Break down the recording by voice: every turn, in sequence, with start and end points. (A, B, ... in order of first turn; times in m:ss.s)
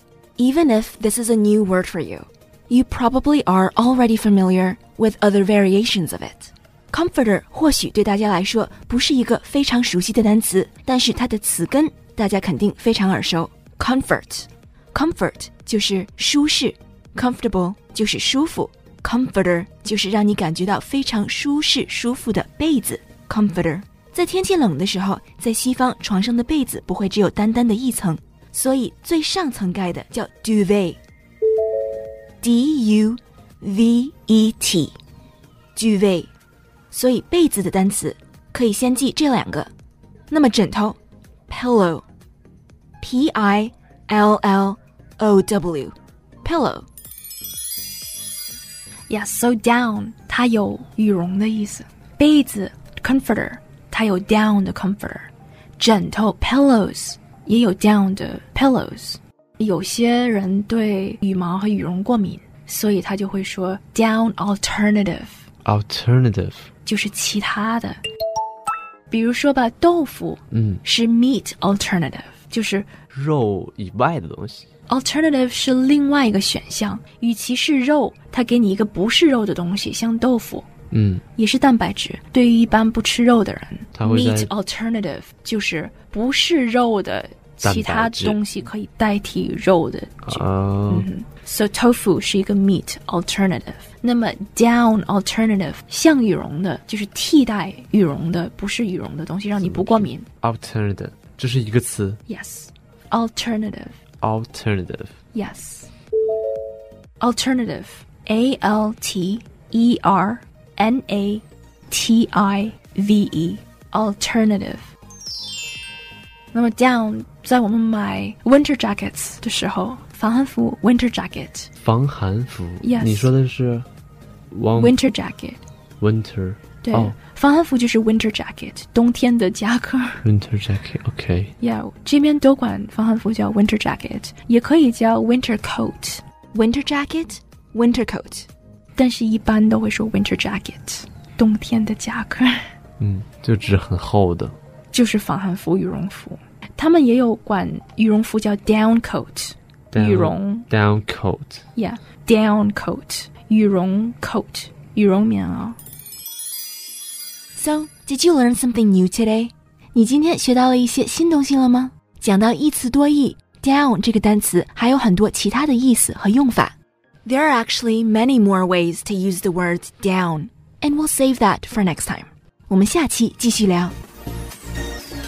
0:00.4-0:31.0 A
0:32.4-0:35.0 A
0:35.8-0:36.3 A
0:36.9-0:39.7 A
0:40.3-0:41.0 A
0:41.5-0:42.0 A
0:43.0-0:46.9 A
0:49.1-1:05.4 B
1:05.6-1:06.7 C
1:06.8-1:08.0 B
1:09.1-1:12.9 B
1:10.5-1:10.8 C
1:13.1-1:14.7 C
1:14.9-1:20.7 B
1:20.9-1:21.2 C
1:21.4-1:40.3 B
1:24.0-1:24.5 C
1:27.6-1:28.4 C
1:30.3-1:31.1 C
1:39.6-1:42.2 C
1:42.3-1:44.0 B
1:44.2-1:45.1 C
1:45.3-1:45.9 B
1:47.2-1:54.9 B
1:56.5-2:01.7 B
2:01.8-2:03.9 C
2:02.8-2:03.3 B
2:04.5-2:05.0 C
2:04.8-2:05.6 B
2:06.0-2:07.2 C
2:06.8-2:10.2 B
2:10.2-2:11.5 C
2:11.6-2:16.2 B
2:16.5-2:18.5 A
2:19.0-2:22.7 B
2:23.0-2:24.6 C
2:24.9-2:30.7 B
2:29.9-2:31.6 C
2:31.8-2:35.8 B
2:37.6-2:54.0 A